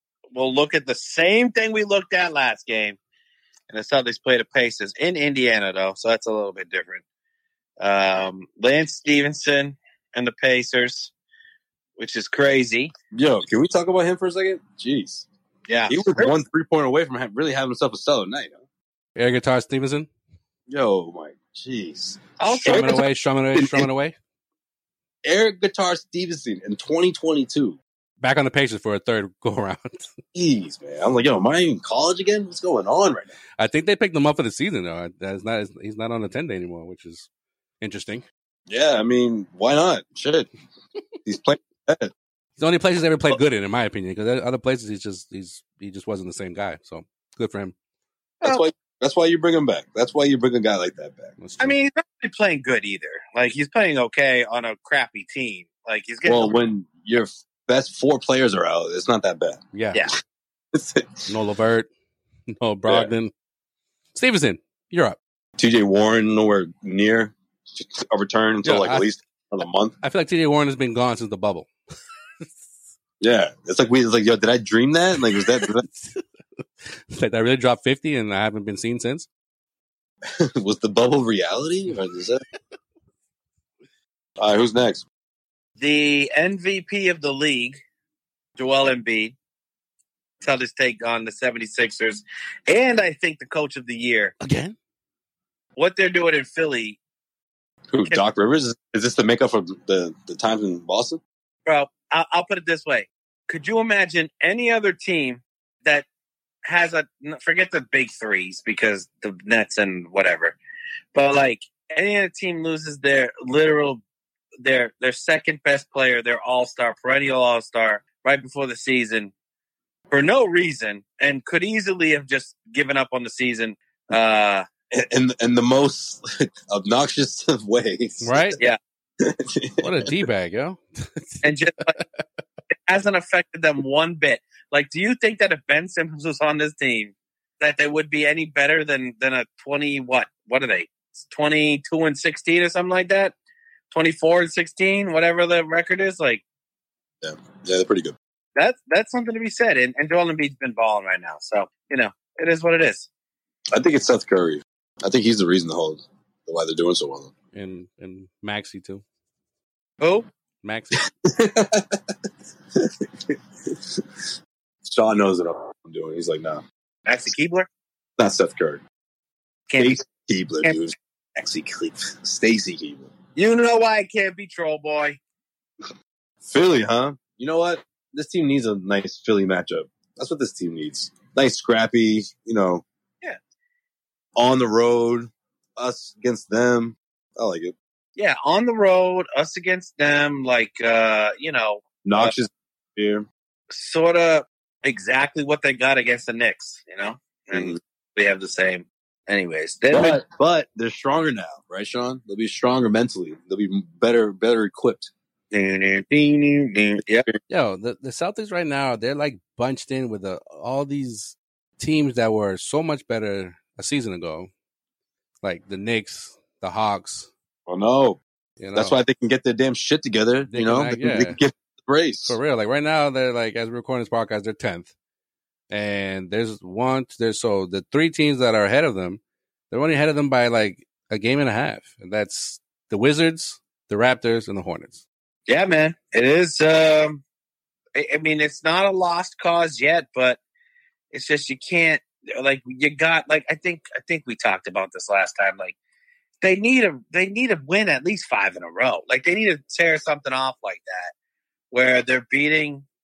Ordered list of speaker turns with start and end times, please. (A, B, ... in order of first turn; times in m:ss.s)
0:00.3-0:03.0 A
0:03.7-0:07.0 A
0:07.8-0:11.1 A
0:12.0-0:12.9 A
0:13.1-0:15.3 B
0:15.7-0:16.3 A
0:15.9-0:18.6 B
0:19.2-0:20.1 C
0:20.7-0:23.9 B
0:22.4-0:23.0 A
0:22.6-0:24.2 C
0:25.2-0:27.8 B
0:28.2-0:30.1 C
0:30.4-0:33.4 B
0:33.6-0:37.3 C
0:37.8-0:38.2 C
0:38.7-0:40.5 B
0:41.2-0:42.1 B
0:42.6-0:47.7 C
0:48.4-0:51.4 B
0:51.4-0:51.8 C
0:51.6-0:56.6 A
0:56.2-0:59.6 B
0:59.7-1:00.1 C
1:00.7-1:01.3 B
1:01.3-1:01.9 C
1:02.6-1:03.3 C
1:04.2-1:05.2 C
1:05.6-1:10.0 B
1:08.6-1:09.1 C
1:10.0-1:11.7 C
1:13.2-1:15.8 B
1:15.3-1:16.2 C
1:17.1-1:19.3 C
1:20.4-1:22.4 B
1:24.4-1:25.0 B
1:25.8-1:27.8 A
1:28.6-1:29.4 A
1:30.4-1:34.3 A
1:34.4-1:34.8 C
1:35.8-1:37.0 A
1:37.9-1:41.2 B
1:41.7-1:46.0 A
1:46.6-1:50.6 A
1:51.1-1:54.0 A
1:54.6-1:59.3 A
2:00.1-2:04.7 A
2:04.9-2:08.6 B
2:08.2-2:08.6 C
2:09.2-2:10.1 B
2:09.8-2:11.4 C
2:11.4-2:12.0 A
2:12.9-2:23.3 A
2:23.9-2:26.4 A
2:27.2-2:28.2 B
2:28.6-2:33.1 A
2:33.7-2:37.3 B
2:37.5-2:39.0 C
2:40.0-2:40.3 A
2:40.6-2:41.0 C
2:40.9-2:42.0 B
2:42.8-2:44.0 B
2:44.8-2:46.6 B
2:47.1-2:47.7 A
2:48.2-2:48.8 B
2:49.7-2:50.0 A
2:49.8-2:53.1 B
2:53.4-2:55.2 A
2:56.4-3:02.8 B
3:04.4-3:07.7 B
3:08.2-3:12.3 A
3:12.0-3:13.3 B
3:13.7-3:20.2 A
3:17.5-3:17.8 B
3:19.9-3:25.1 B
3:25.5-3:27.3 A
3:27.5-3:34.5 C
3:35.4-3:37.3 C
3:37.7-3:38.2 B
3:38.6-3:39.0 C
3:38.7-3:42.4 B
3:40.5-3:41.4 C
3:42.3-3:44.9 C
3:45.7-3:49.2 C
3:49.7-3:55.0 C
3:55.5-3:57.2 A
3:58.0-4:00.4 A
4:01.1-4:05.8 A
4:06.4-4:11.1 A
4:11.7-4:12.9 A